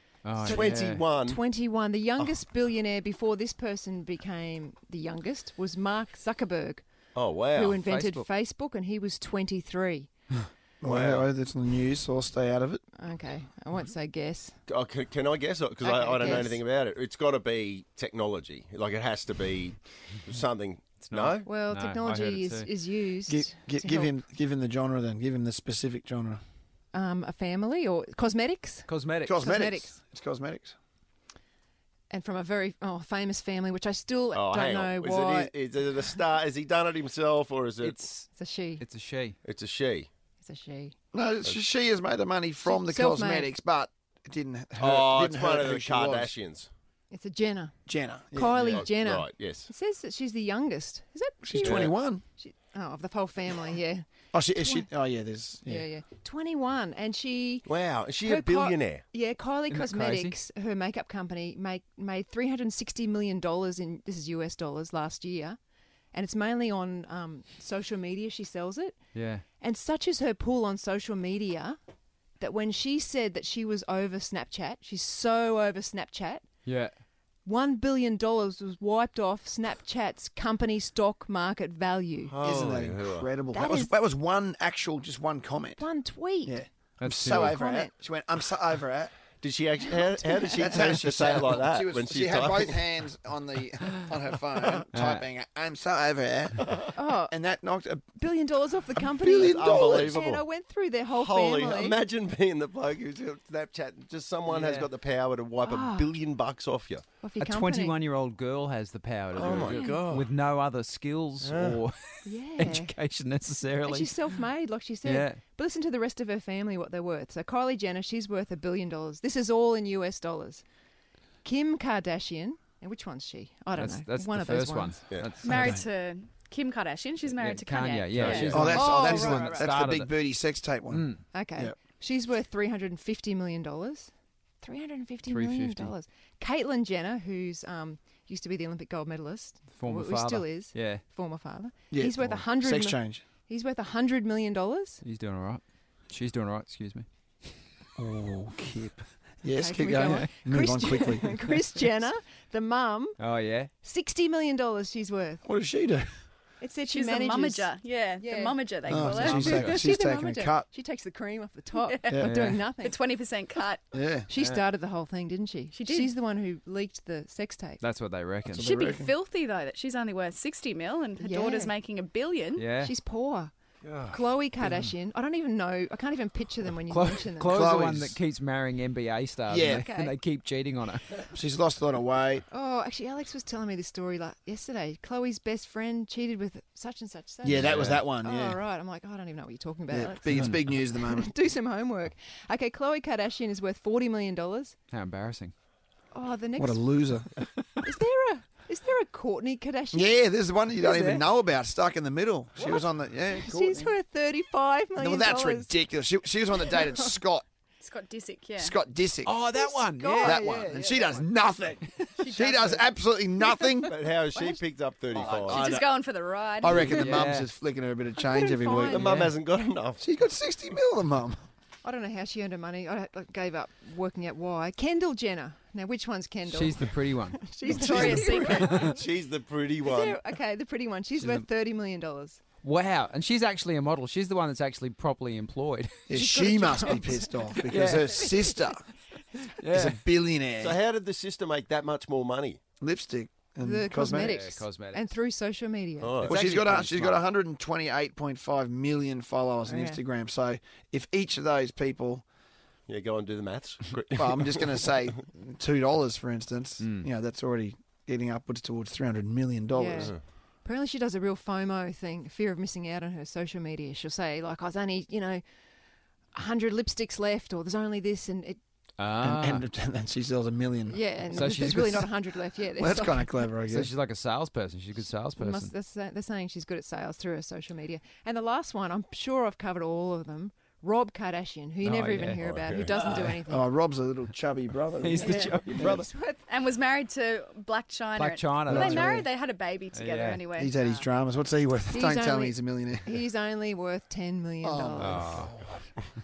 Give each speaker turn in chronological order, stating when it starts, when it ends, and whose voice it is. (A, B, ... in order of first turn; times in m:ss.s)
0:00.2-0:01.0 A
0:00.4-0:06.8 B
0:00.4-0:01.4 C
0:07.2-0:07.8 C
0:07.5-0:10.1 B
0:07.8-0:08.3 A
0:10.8-0:12.8 D
0:10.8-0:11.3 C
0:13.0-0:14.6 B
0:14.7-0:21.5 C
0:15.8-0:16.6 B
0:21.0-0:22.7 A
0:21.4-0:24.1 B
0:23.3-0:26.4 D
0:26.9-0:30.0 B
0:28.9-0:29.4 A
0:29.2-0:30.8 D
0:32.1-0:35.5 B
0:34.3-0:38.0 C
0:37.8-0:39.4 A
0:38.3-0:38.8 B
0:39.4-0:40.1 C
0:40.4-0:41.0 B
0:41.1-0:46.3 D
0:42.7-0:43.5 B
0:44.8-0:46.7 C
0:47.1-0:47.8 B
0:47.9-0:48.9 D
0:48.3-0:54.9 B
0:48.7-0:49.7 C
0:51.4-0:52.2 D
0:51.6-0:51.9 C
0:54.3-0:55.9 D
0:55.6-0:57.7 B
0:57.6-0:59.0 C
0:58.2-1:05.6 B
0:59.7-1:00.4 A
1:06.1-1:09.0 B
1:09.1-1:09.4 A
1:09.6-1:11.8 B
1:12.4-1:16.4 B
1:16.7-1:17.0 A
1:17.4-1:22.4 B
1:22.3-1:23.3 C
1:22.4-1:29.1 D
1:23.5-1:23.9 B
1:25.8-1:26.6 B
1:27.0-1:27.6 A
1:27.3-1:27.9 B
1:29.4-1:32.9 C
1:29.9-1:30.6 B
1:30.5-1:38.2 D
1:34.9-1:35.2 A
1:36.9-1:37.4 B
1:38.2-1:42.0 B
1:39.0-1:40.2 D
1:39.3-1:40.4 C
1:41.1-1:47.0 C
1:44.5-1:44.9 A
1:45.6-1:46.2 B
1:47.2-1:48.0 B
1:47.4-1:54.4 A
1:49.3-1:50.3 C
1:49.4-1:50.1 B
1:51.4-1:51.8 C
1:52.2-1:53.0 B
1:53.8-2:00.6 B
1:55.0-1:55.4 A
2:01.4-2:05.0 B
2:03.8-2:05.8 A
2:05.4-2:08.7 E
2:05.5-2:05.8 D
2:07.3-2:10.1 A
2:08.2-2:08.6 C
2:08.4-2:11.8 D
2:08.7-2:09.7 B
2:10.9-2:11.2 A
2:11.3-2:25.0 B
2:15.3-2:15.9 A
2:19.7-2:21.0 A
2:21.9-2:23.2 D
2:25.0-2:27.1 A
2:28.0-2:31.3 D
2:29.5-2:33.2 B
2:33.2-2:33.7 A
2:33.8-2:35.4 B
2:35.4-2:36.1 D
2:36.6-2:43.0 B
2:36.9-2:39.6 E
2:38.9-2:40.7 D
2:39.0-2:39.8 A
2:41.8-2:43.8 E
2:42.1-2:42.6 D
2:43.9-2:44.3 D
2:44.3-2:47.8 B
2:45.7-2:46.1 E
2:47.8-2:48.7 A
2:48.5-2:49.1 D
2:48.6-2:52.7 E
2:51.2-2:51.7 B
2:52.6-2:52.9 A
2:52.8-2:53.5 B
2:53.8-2:54.2 C
2:54.1-2:57.6 B
2:56.9-3:01.2 A
2:57.5-2:58.2 D
2:59.5-2:59.9 D
2:59.6-3:00.2 B
3:01.3-3:02.4 D
3:02.5-3:14.8 B
3:07.4-3:08.6 D
3:07.5-3:08.0 A
3:09.9-3:11.3 D
3:14.9-3:15.5 A
3:16.1-3:16.9 B
3:16.6-3:17.3 D
3:17.8-3:20.1 B
3:19.9-3:23.8 D
3:20.8-3:21.2 A
3:22.6-3:25.7 B
3:23.6-3:23.9 A
3:25.0-3:27.4 D
3:26.6-3:27.0 B
3:27.8-3:28.8 E
3:28.6-3:29.3 D
3:29.2-3:31.2 A
3:29.5-3:30.7 B
3:30.2-3:34.0 D
3:32.2-3:32.9 E
3:33.8-3:35.7 C
3:35.1-3:35.9 D
3:35.5-3:37.0 E
3:36.6-3:39.1 D
3:37.0-3:37.5 A
3:38.4-3:39.1 B
3:38.9-3:40.0 C
3:39.0-3:39.3 A
3:40.0-3:41.4 D
3:41.8-3:49.0 B
3:46.5-3:49.0 A
3:47.6-3:48.9 E
3:48.8-3:50.2 C
3:49.8-3:52.4 B
3:51.2-3:51.5 A
3:52.6-3:56.0 A
3:56.1-3:58.9 D
3:56.1-3:57.6 B
3:57.7-3:58.2 A
3:59.6-4:00.0 A
3:59.7-4:00.8 D
4:00.6-4:02.6 C
4:02.8-4:04.5 D
4:03.6-4:06.2 B
4:04.1-4:05.1 A
4:06.0-4:06.8 C
4:06.2-4:12.2 D
4:06.3-4:07.2 A
4:09.6-4:10.0 B
4:12.9-4:14.9 C
4:14.1-4:20.1 D
4:16.8-4:17.1 A
4:19.7-4:25.4 B
4:26.3-4:28.6 B
4:29.0-4:29.6 A
4:29.2-4:33.9 D
4:30.9-4:33.5 B
4:31.3-4:31.8 A
4:33.7-4:35.7 A
4:35.4-4:43.7 B
4:41.8-4:43.4 A
4:42.4-4:42.9 C
4:43.5-4:46.1 D
4:45.0-4:46.1 A
4:45.2-4:46.4 B
4:46.5-4:51.1 E
4:48.2-4:49.2 A
4:48.7-4:49.3 D
4:49.9-4:50.4 A
4:50.6-4:53.2 D
4:51.9-4:55.4 B
4:54.6-4:55.8 D
4:55.0-4:55.5 A